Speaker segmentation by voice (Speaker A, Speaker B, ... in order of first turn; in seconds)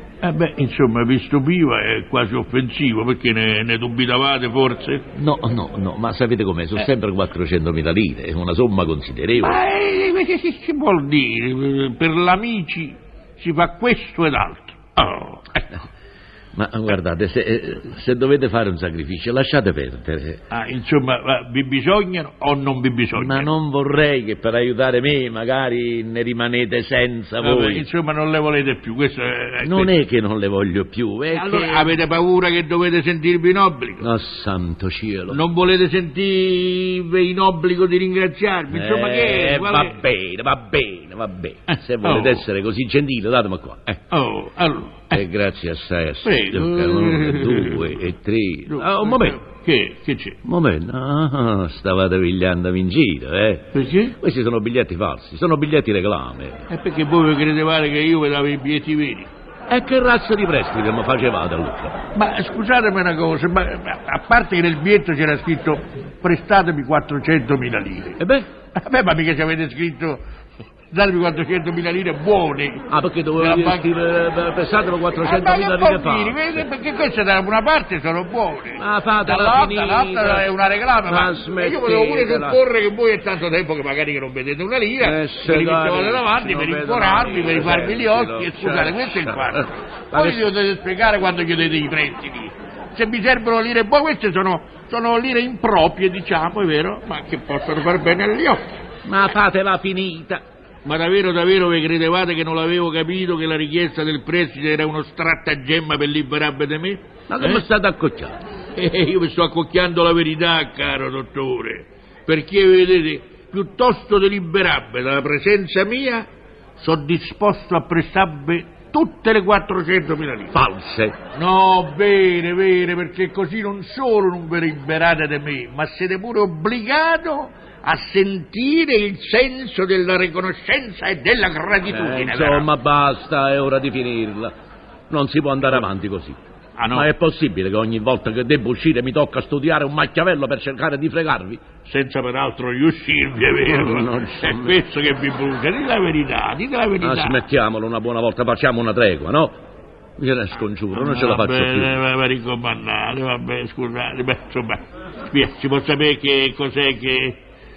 Speaker A: 0.2-5.0, 9.4-15.7, 20.5-23.5, 27.4-29.9, 31.3-34.1, 35.3-40.0, 41.7-42.5, 44.1-45.2, 46.2-47.9, 48.7-50.4, 53.7-54.2, 56.7-59.3, 62.1-68.2, 68.8-70.2, 70.9-72.9, 73.4-73.9, 75.2-98.7, 100.8-107.6, 108.8-116.3, 116.8-120.6, 121.3-132.7, 136.8-137.1, 141.8-147.4, 150.9-157.4
Speaker B: 5.1-9.6, 16.6-20.4, 23.2-27.9, 29.6-32.0, 34.0-35.4, 38.7-44.0, 45.1-49.4, 50.5-56.6, 59.7-62.0, 68.2-68.5, 72.9-76.7, 78.8-80.5, 81.1-82.6, 85.0-90.5, 99.0-100.4, 107.3-108.4, 120.5-121.2, 131.9-134.5, 135.1-136.4, 136.9-141.6, 143.7-144.8, 147.0-149.6, 150.2-152.0